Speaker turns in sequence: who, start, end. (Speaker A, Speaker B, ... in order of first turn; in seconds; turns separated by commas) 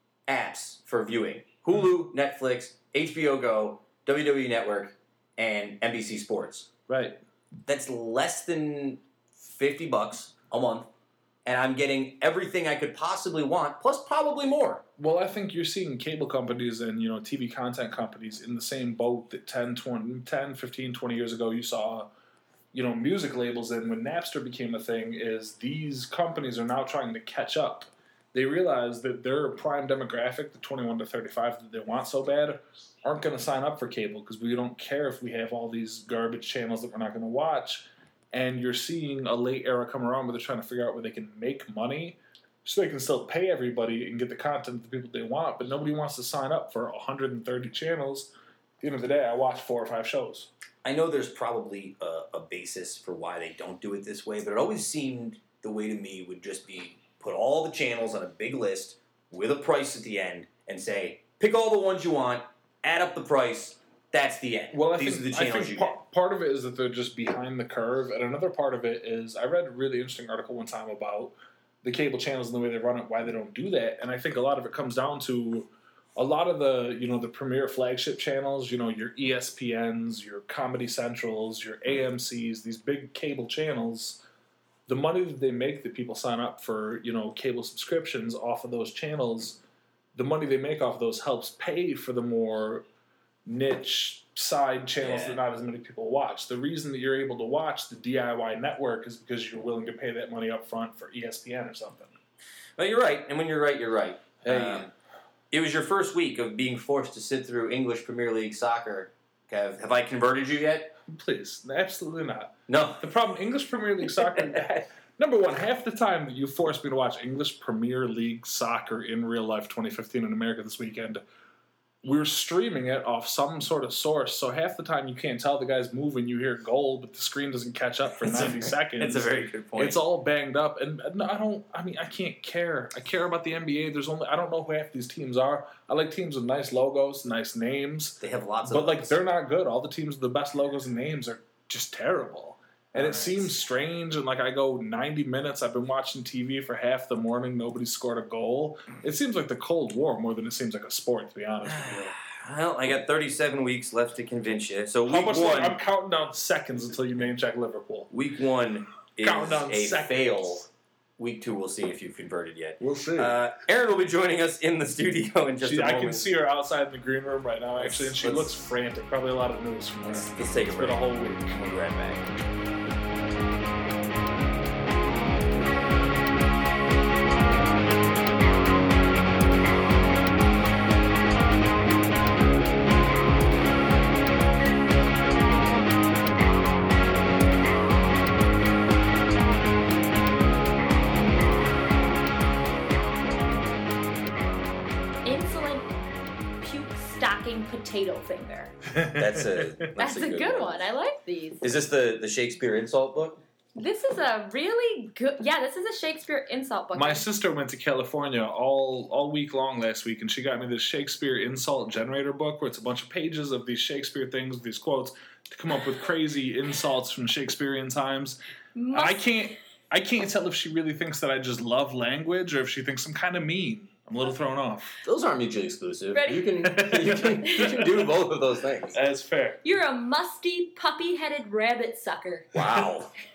Speaker A: 0.3-6.7, Speaker B: 6.9-7.2, Speaker A: 7.7-10.9, Speaker A: 11.4-14.8, Speaker B: 15.0-22.1, Speaker B: 22.7-50.5, Speaker A: 50.8-66.0, Speaker B: 64.7-84.2, Speaker B: 84.9-89.6, Speaker B: 90.1-92.8, Speaker B: 93.5-102.1, Speaker A: 95.0-95.4, Speaker A: 102.8-104.9, Speaker B: 104.4-104.9, Speaker A: 105.5-110.9, Speaker B: 111.1-121.2, Speaker A: 112.7-113.0, Speaker A: 114.2-114.8, Speaker B: 122.0-152.2, Speaker A: 128.2-130.0, Speaker A: 138.2-139.2, Speaker A: 142.9-143.5, Speaker A: 151.6-155.8, Speaker B: 155.1-158.1, Speaker A: 158.1-160.7, Speaker B: 159.2-160.7, Speaker A: 161.2-166.3, Speaker B: 162.8-163.4, Speaker B: 165.6-171.6, Speaker A: 167.8-168.7, Speaker A: 170.0-172.3, Speaker C: 195.2-195.9, Speaker C: 196.6-198.8, Speaker B: 198.9-199.9, Speaker A: 199.1-200.8, Speaker C: 200.0-201.6, Speaker A: 201.6-203.4, Speaker C: 203.7-207.2, Speaker B: 206.9-218.4, Speaker C: 218.7-219.3, Speaker B: 218.9-224.9, Speaker A: 225.0-229.0, Speaker C: 226.1-226.6, Speaker B: 226.6-227.9, Speaker C: 227.6-227.8, Speaker B: 228.9-229.6, Speaker C: 229.6-232.5, Speaker A: 232.5-233.1